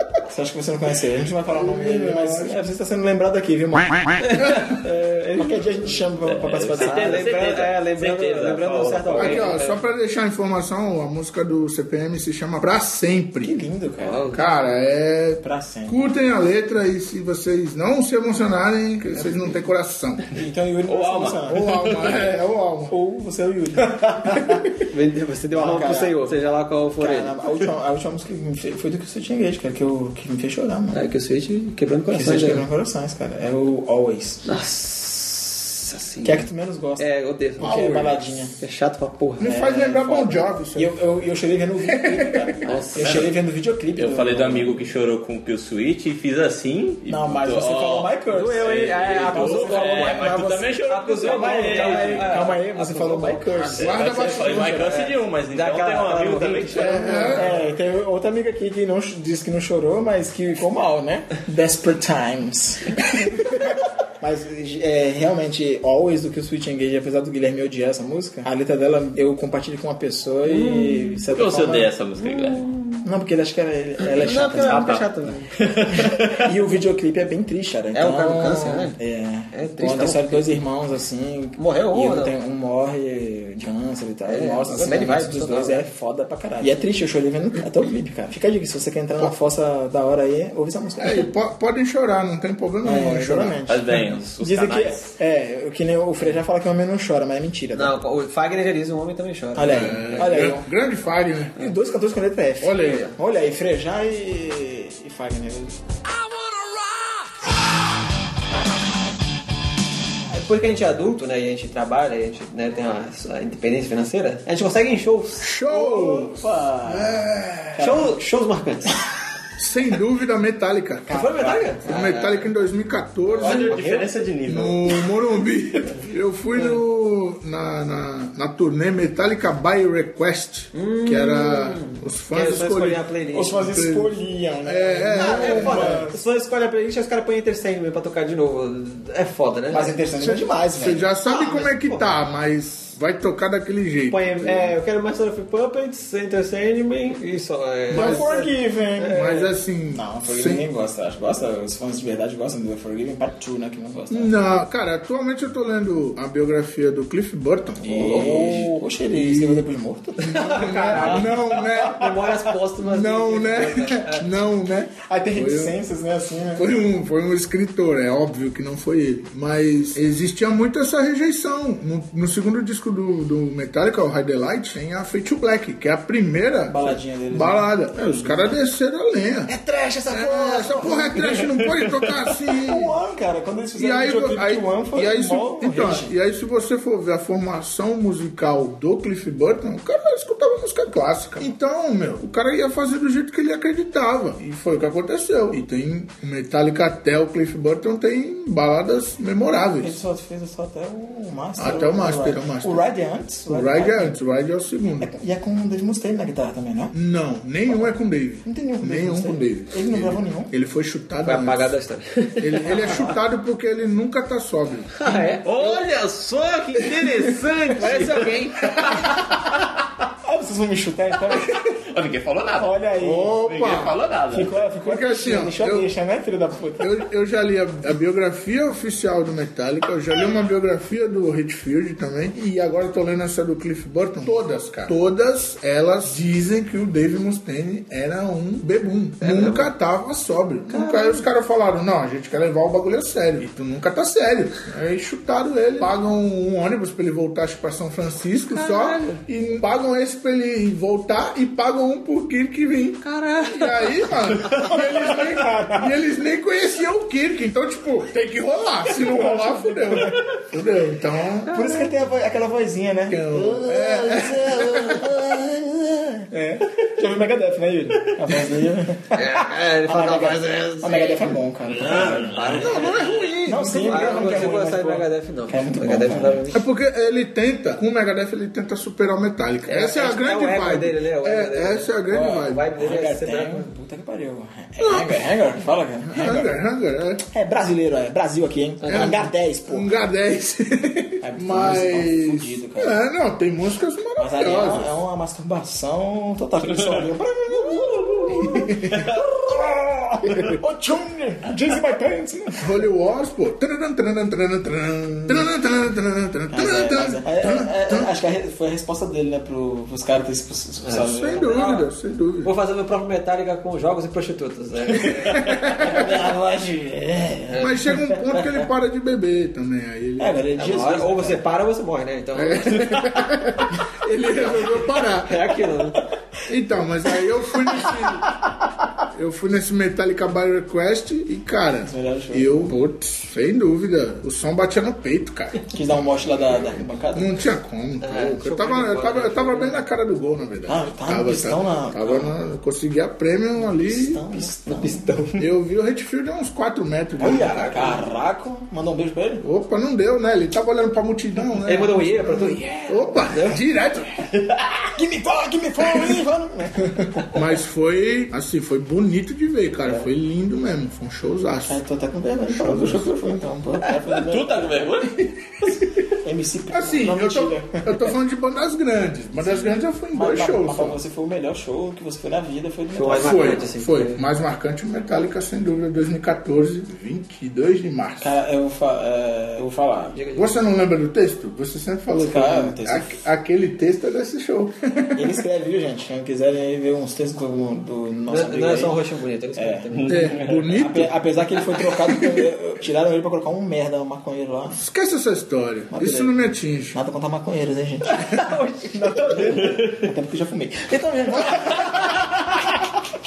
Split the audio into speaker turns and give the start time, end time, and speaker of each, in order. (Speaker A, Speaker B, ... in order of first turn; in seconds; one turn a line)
Speaker A: 0.2-4.3
Speaker B: 1.5-2.6
Speaker C: 4.2-6.0
Speaker B: 4.4-4.8
Speaker A: 5.3-7.3
Speaker D: 6.2-9.6
Speaker C: 6.7-9.8
Speaker B: 9.2-13.6
Speaker A: 13.4-14.3
Speaker C: 14.0-14.4
Speaker B: 14.3-20.2
Speaker A: 15.4-16.0
Speaker A: 19.0-19.6
Speaker A: 20.3-22.1
Speaker D: 20.9-22.3
Speaker B: 21.5-22.9
Speaker A: 22.9-24.9
Speaker C: 24.8-27.4
Speaker A: 25.5-26.2
Speaker A: 27.0-31.1
Speaker C: 30.9-32.6
Speaker A: 32.1-34.4
Speaker C: 34.4-36.5
Speaker A: 36.2-37.0
Speaker C: 37.0-37.9
Speaker A: 37.6-38.6
Speaker B: 37.6-38.2
Speaker C: 38.6-39.5
Speaker B: 39.4-41.0
Speaker A: 39.4-44.9
Speaker B: 41.8-42.6
Speaker C: 42.6-43.2
Speaker D: 42.9-43.3
Speaker D: 44.0-52.4
Speaker A: 47.0-50.5
Speaker C: 48.3-53.7
Speaker A: 51.2-53.9
Speaker D: 53.7-57.4
Speaker B: 53.7-55.0
Speaker C: 54.7-57.5
Speaker B: 56.7-57.5
Speaker A: 57.3-71.9
Speaker C: 70.4-71.3
Speaker D: 71.3-72.7
Speaker C: 72.2-73.0
Speaker A: 73.0-75.0
Speaker C: 74.0-75.5
Speaker D: 74.5-75.0
Speaker D: 75.6-76.5
Speaker A: 75.8-91.3
Speaker C: 77.9-79.0
Speaker C: 79.5-80.6
Speaker C: 81.5-82.3
Speaker C: 84.3-85.9
Speaker B: 91.0-94.0
Speaker A: 92.8-97.9
Speaker D: 93.7-95.1
Speaker C: 97.7-100.5
Speaker A: 99.5-100.7
Speaker B: 99.6-101.6
Speaker A: 101.5-105.8
Speaker B: 102.6-103.1
Speaker C: 102.8-103.1
Speaker E: 106.0-108.1
Speaker C: 110.3-115.5
Speaker B: 115.4-117.8
Speaker A: 115.7-118.2
Speaker C: 117.8-119.0
Speaker B: 119.6-121.2
Speaker A: 121.1-121.8
Speaker C: 121.1-122.5
Speaker B: 121.8-123.8
Speaker D: 123.3-125.1
Speaker C: 123.4-124.1
Speaker B: 124.5-133.0
Speaker C: 126.5-126.8
Speaker C: 130.7-133.8
Speaker A: 133.3-136.2
Speaker B: 133.7-136.1
Speaker C: 135.1-140.0
Speaker A: 139.7-141.1
Speaker B: 140.2-144.7
Speaker C: 141.2-142.2
Speaker C: 144.1-149.4
Speaker A: 147.9-154.3
Speaker B: 147.9-148.3
Speaker B: 149.1-150.7
Speaker B: 154.1-159.6
Speaker A: 157.8-161.4
Speaker C: 157.9-158.8
Speaker C: 160.2-164.3
Speaker B: 160.3-165.7
Speaker A: 165.0-166.8
Speaker B: 166.5-179.5
Speaker A: 176.7-178.6
Speaker A: 179.4-181.6
Speaker B: 180.1-182.9
Speaker A: 182.5-186.1
Speaker B: 183.8-200.0
Speaker A: 199.8-204.2
Speaker B: 201.6-202.8
Speaker B: 203.5-205.1
Speaker A: 205.0-206.9
Speaker B: 206.9-211.8
Speaker A: 207.7-210.5
Speaker C: 211.2-213.1
Speaker B: 212.4-215.1
Speaker C: 214.9-215.9
Speaker D: 215.4-219.5
Speaker C: 216.8-219.0
Speaker A: 220.2-221.6
Speaker D: 221.6-224.5
Speaker A: 222.6-223.7
Speaker B: 223.0-223.9
Speaker A: 224.3-227.1
Speaker B: 224.8-225.9
Speaker B: 226.8-261.8
Speaker C: 239.2-239.7
Speaker C: 240.7-241.3
Speaker C: 248.5-249.2
Speaker C: 253.1-253.8
Speaker A: 254.4-256.0
Speaker A: 258.9-260.2
Speaker A: 261.5-272.9
Speaker B: 263.1-265.1
Speaker C: 269.1-271.4
Speaker D: 271.8-272.6
Speaker C: 272.2-273.2
Speaker B: 272.6-274.5
Speaker A: 273.4-276.5
Speaker C: 273.8-276.6
Speaker B: 276.5-282.6
Speaker C: 279.6-283.7
Speaker A: 282.1-286.6
Speaker B: 284.8-285.2
Speaker B: 286.1-287.2
Speaker A: 287.3-289.9
Speaker C: 288.8-289.2
Speaker B: 288.9-294.9
Speaker A: 291.2-293.0
Speaker A: 294.2-302.9
Speaker B: 298.3-299.1
Speaker B: 300.3-300.6
Speaker B: 302.6-308.1
Speaker A: 306.5-311.5
Speaker C: 310.8-311.9
Speaker B: 311.0-312.5
Speaker C: 312.4-316.1
Speaker B: 315.3-316.1
Speaker A: 315.7-318.7
Speaker C: 317.5-317.8
Speaker B: 317.6-320.4
Speaker A: 320.2-321.4
Speaker C: 320.6-322.9
Speaker B: 322.3-325.4
Speaker C: 324.4-326.0
Speaker B: 326.4-328.3
Speaker A: 327.6-328.3
Speaker B: 329.1-335.7
Speaker A: 331.8-332.8
Speaker A: 335.7-337.5
Speaker B: 337.1-344.2
Speaker C: 338.0-339.8
Speaker A: 340.6-342.3
Speaker A: 343.6-345.1
Speaker C: 344.6-345.4
Speaker B: 345.4-348.0
Speaker A: 347.2-349.4
Speaker C: 347.2-348.0
Speaker B: 349.4-354.3
Speaker C: 351.6-353.6
Speaker D: 354.3-354.9
Speaker A: 354.9-357.3
Speaker B: 357.3-361.8
Speaker A: 361.6-364.9
Speaker B: 362.5-363.1
Speaker D: 364.1-365.3
Speaker A: 366.2-368.1
Speaker B: 366.7-371.0
Speaker A: 369.4-373.6
Speaker C: 372.9-374.2
Speaker B: 373.1-378.3
Speaker A: 378.2-380.2
Speaker C: 380.1-380.5
Speaker B: 380.3-385.4
Speaker A: 382.1-383.2
Speaker A: 385.1-389.0
Speaker C: 388.3-390.4
Speaker A: 389.5-390.1
Speaker D: 390.0-390.6
Speaker B: 390.1-391.1
Speaker A: 390.7-394.8
Speaker B: 394.7-397.0
Speaker A: 395.9-396.3
Speaker A: 396.9-402.3
Speaker C: 398.0-399.7
Speaker D: 399.6-400.1